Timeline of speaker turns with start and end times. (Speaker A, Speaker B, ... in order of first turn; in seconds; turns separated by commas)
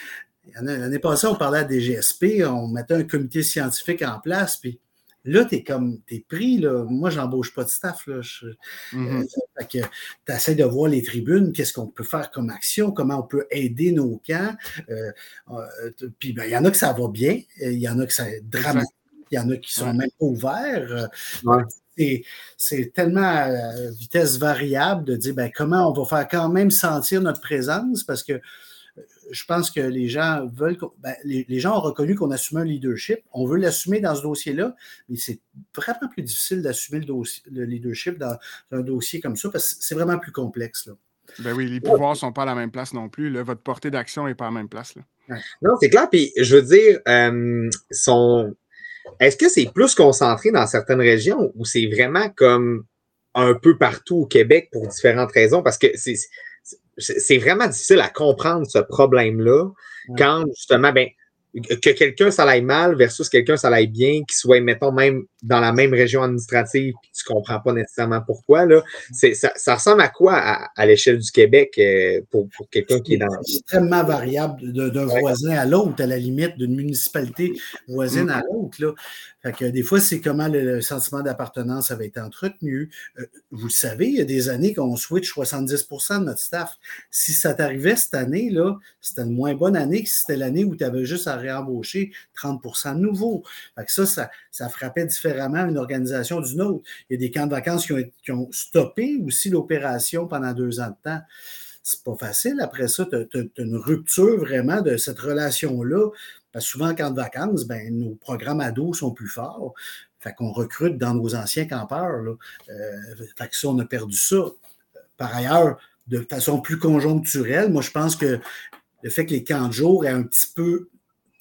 Speaker A: 0.5-28.4, Speaker B: 8.9-9.3, Speaker B: 18.5-18.9, Speaker A: 29.2-41.0, Speaker B: 41.4-45.1, Speaker C: 45.6-48.5, Speaker C: 49.2-56.3, Speaker C: 57.0-73.5, Speaker A: 73.1-101.2, Speaker A: 101.8-114.6, Speaker A: 115.2-118.4, Speaker A: 119.0-120.9